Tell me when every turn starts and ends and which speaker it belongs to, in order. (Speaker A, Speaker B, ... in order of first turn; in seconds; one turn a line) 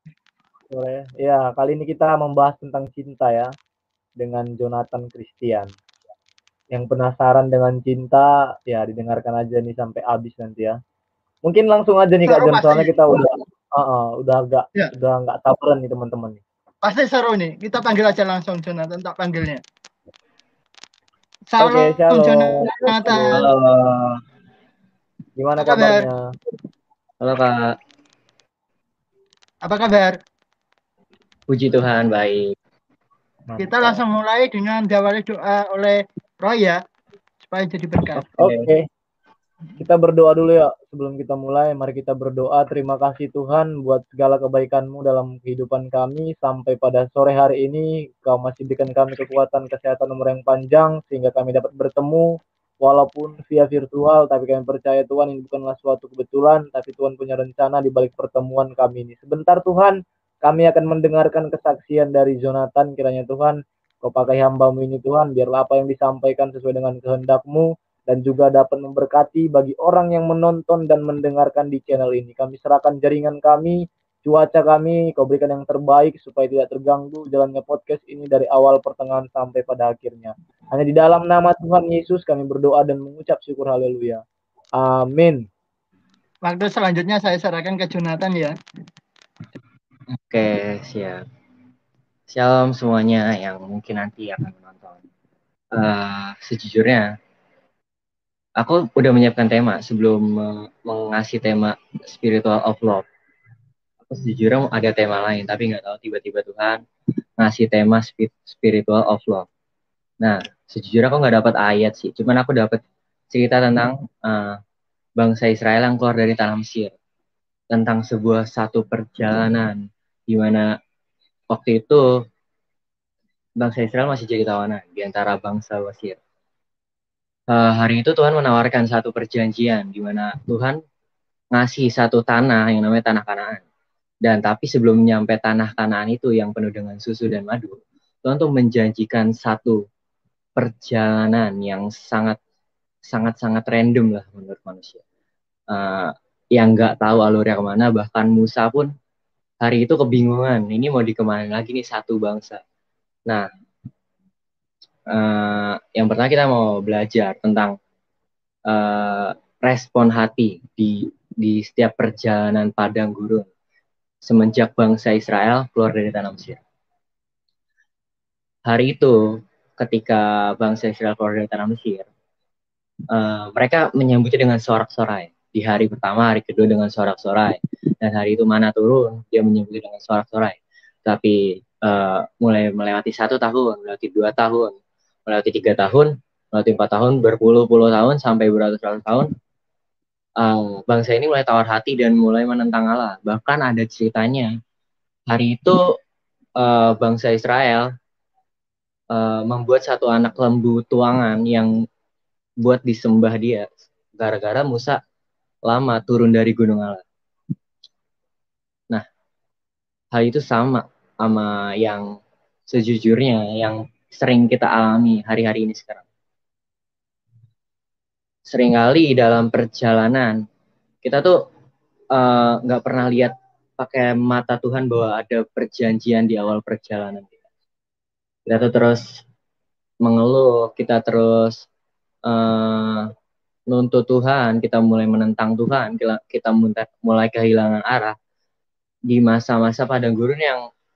Speaker A: 0.7-3.5
Speaker A: 4.2-5.7
Speaker A: 6.7-10.8
Speaker A: 11.4-16.4
Speaker B: 12.2-13.0
Speaker B: 16.8-19.6
Speaker B: 21.5-23.4
Speaker A: 21.6-23.4
Speaker C: 23.3-24.2
Speaker A: 25.4-26.2
Speaker B: 25.6-26.1
Speaker C: 27.2-27.8
Speaker B: 29.6-30.1
Speaker C: 31.5-32.5
Speaker A: 33.5-34.0
Speaker B: 33.6-36.8
Speaker B: 37.4-38.3
Speaker C: 38.2-38.7
Speaker A: 38.4-38.9
Speaker A: 39.8-84.2
Speaker A: 84.8-85.5
Speaker B: 86.4-88.5
Speaker C: 90.2-91.2
Speaker C: 92.3-95.0
Speaker C: 95.7-97.1
Speaker C: 98.6-103.0
Speaker C: 104.0-106.8
Speaker C: 107.4-109.5
Speaker C: 110.2-114.5
Speaker C: 115.2-116.9
Speaker C: 117.7-120.7
Speaker C: 121.5-122.1
Speaker C: 123.6-126.2
Speaker C: 127.5-130.8
Speaker C: 131.5-133.6
Speaker C: 134.2-139.8
Speaker C: 140.6-142.4
Speaker C: 143.1-145.0
Speaker C: 145.7-148.9
Speaker C: 149.6-152.6
Speaker C: 155.1-157.8
Speaker C: 158.7-163.5
Speaker C: 164.2-166.6
Speaker C: 168.7-169.2
Speaker C: 169.8-172.1
Speaker C: 173.1-184.8
Speaker C: 185.3-189.3
Speaker C: 190.4-194.5
Speaker C: 195.3-195.8
Speaker C: 196.6-197.9
Speaker C: 199.1-201.7
Speaker C: 202.6-205.0
Speaker C: 205.7-207.0
Speaker C: 210.1-212.2
Speaker C: 212.7-216.0
Speaker C: 218.5-220.4
Speaker C: 221.0-221.4
Speaker C: 222.1-227.3
Speaker C: 228.5-229.2
Speaker C: 230.0-231.7
Speaker C: 232.2-233.1
Speaker C: 233.7-238.1
Speaker C: 239.1-240.6